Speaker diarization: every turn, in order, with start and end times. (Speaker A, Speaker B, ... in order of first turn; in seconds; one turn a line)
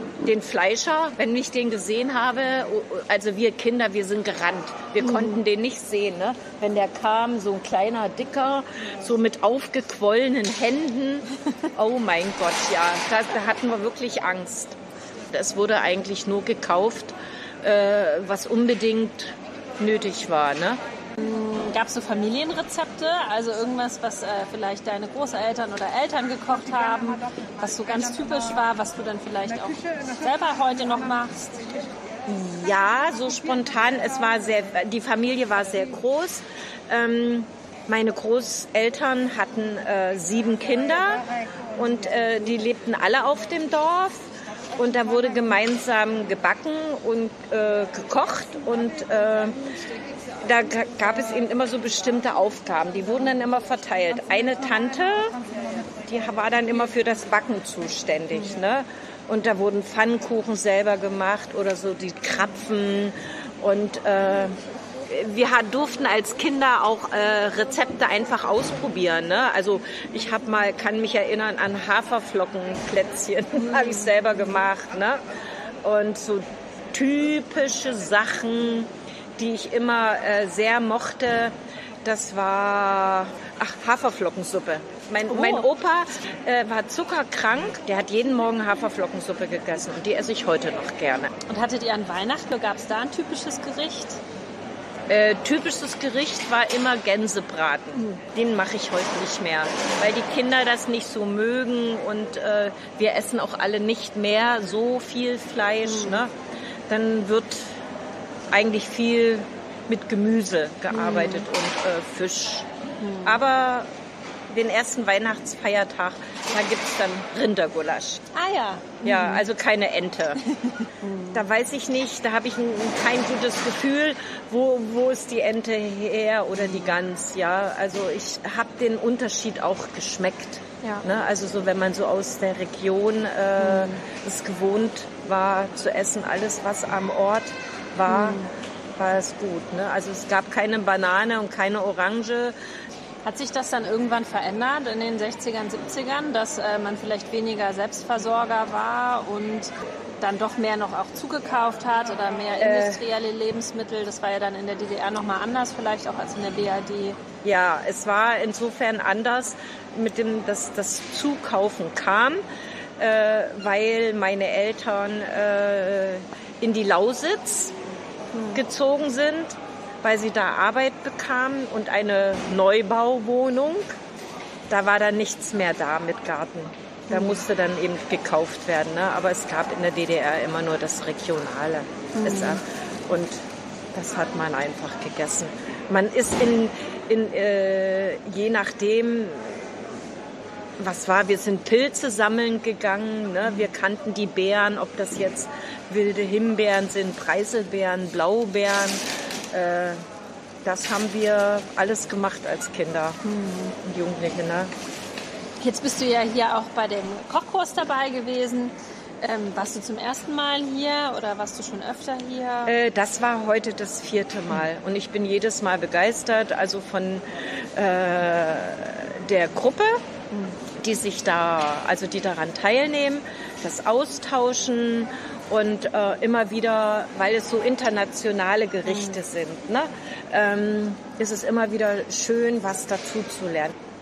Speaker A: 0.2-14.8
Speaker B: 5.0-5.4
Speaker A: 15.3-20.8
Speaker B: 21.2-31.6
Speaker A: 32.3-49.6
Speaker A: 50.4-55.3
Speaker A: 56.0-75.2
Speaker B: 73.6-74.6
Speaker A: 75.8-91.3
Speaker B: 85.3-85.7
Speaker B: 91.5-94.2
Speaker A: 95.1-106.3
Speaker B: 105.8-106.2
Speaker A: 106.9-107.8
Speaker A: 108.5-112.7
Speaker B: 110.9-111.5
Speaker B: 113.0-113.4
Speaker A: 113.2-113.9
Speaker A: 114.5-118.2
Speaker B: 118.3-119.5
Speaker A: 119.0-120.4
Speaker B: 121.0-121.5
Speaker A: 121.3-138.4
Speaker B: 126.6-126.9
Speaker B: 133.6-134.0
Speaker B: 138.1-138.5
Speaker A: 139.0-142.6
Speaker B: 143.2-157.2
Speaker A: 152.6-153.0
Speaker A: 157.4-162.4
Speaker A: 163.0-167.8
Speaker B: 168.3-168.6
Speaker A: 168.6-174.0
Speaker A: 174.7-189.6
Speaker B: 177.1-177.4
Speaker B: 182.2-182.6
Speaker A: 190.8-200.1
Speaker A: 200.6-203.2
Speaker B: 203.2-203.8
Speaker A: 203.8-204.7
Speaker B: 205.6-212.8
Speaker A: 212.7-220.0
Speaker B: 220.3-220.6
Speaker A: 220.8-233.8
Speaker B: 228.8-229.2